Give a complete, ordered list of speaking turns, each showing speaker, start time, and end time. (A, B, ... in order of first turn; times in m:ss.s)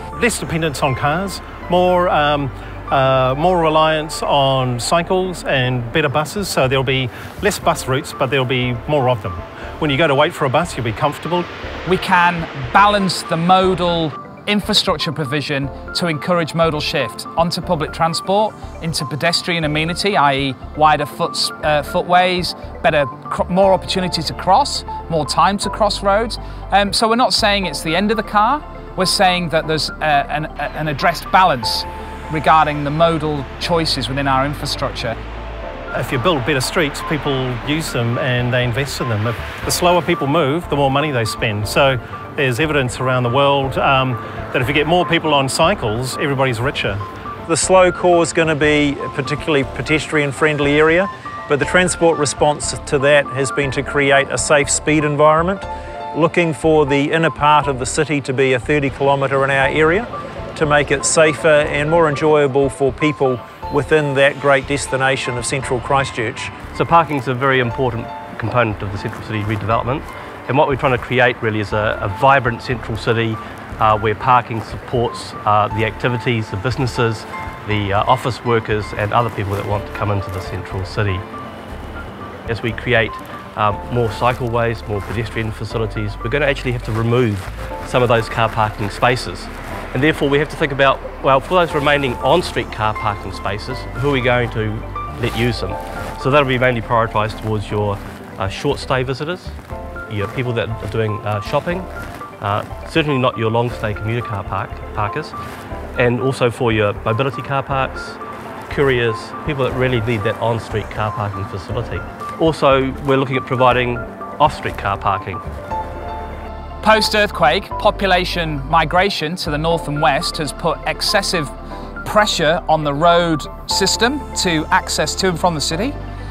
0:00.2-0:11.5 A
0:11.9-0:35.2 B
0:35.9-0:47.0 A
0:47.5-1:06.5 C
1:06.7-1:21.2 D
1:22.5-1:39.6 D
1:40.1-1:41.9 D
1:42.4-1:45.3 D
1:46.0-1:48.2 D
1:48.7-1:55.4 D
1:56.8-2:01.5 B
2:02.0-2:05.9 B